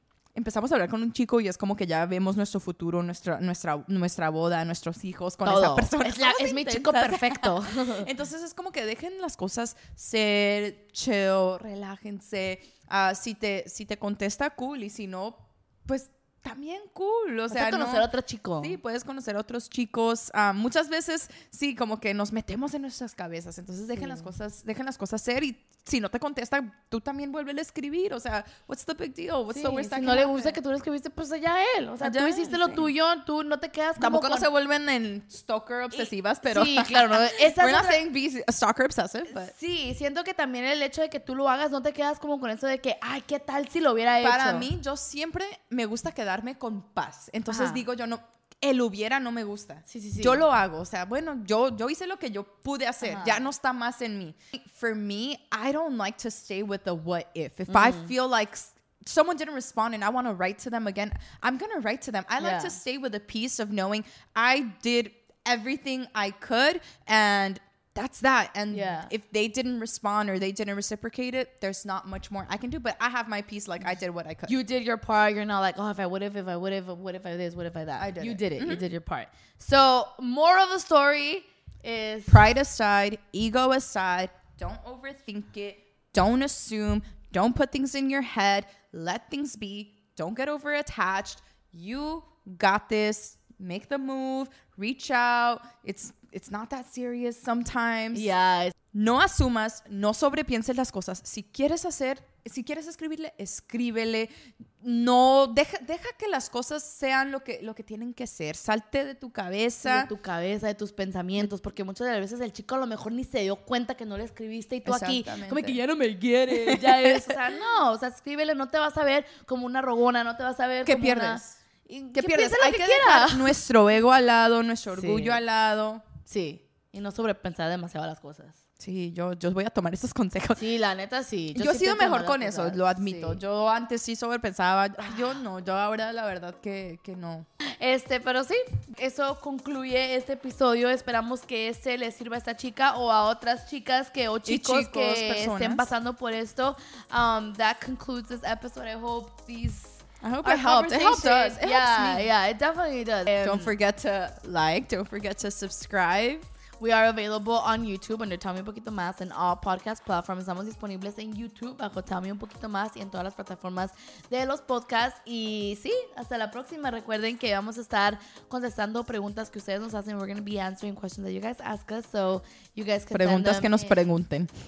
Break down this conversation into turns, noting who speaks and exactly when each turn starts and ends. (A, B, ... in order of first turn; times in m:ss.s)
0:00.4-0:18.1 A
0:05.4-0:08.1 B
0:17.5-0:18.8 B
0:18.6-0:30.6 A
0:24.0-0:24.3 B
0:29.5-0:34.5 B
0:32.0-0:32.9 A
0:34.0-0:39.5 A
0:35.9-0:38.0 B
0:39.3-0:44.7 B
0:44.2-1:14.6 A
0:47.5-0:47.8 B
0:49.9-0:50.5 B
0:53.0-0:53.5 B
0:57.7-0:58.1 B
1:02.4-1:02.8 B
1:08.7-1:09.1 B
1:14.5-1:22.5 B
1:18.0-1:18.8 A
1:22.3-1:38.3 A
1:38.1-1:38.8 B
1:38.9-1:50.1 A
1:49.8-2:03.6 B
1:54.8-1:55.8 A
1:56.6-1:57.4 A
2:00.8-2:01.6 A
2:02.2-2:06.0 A
2:04.9-2:05.4 B
2:06.3-2:08.6 B
2:08.8-2:10.7 A
2:10.6-2:13.4 B
2:11.6-2:17.5 A
2:17.8-2:33.7 B
2:24.5-2:25.9 A
2:30.2-2:32.3 A
2:33.4-2:36.5 A
2:36.8-2:54.0 B
2:53.1-2:54.5 A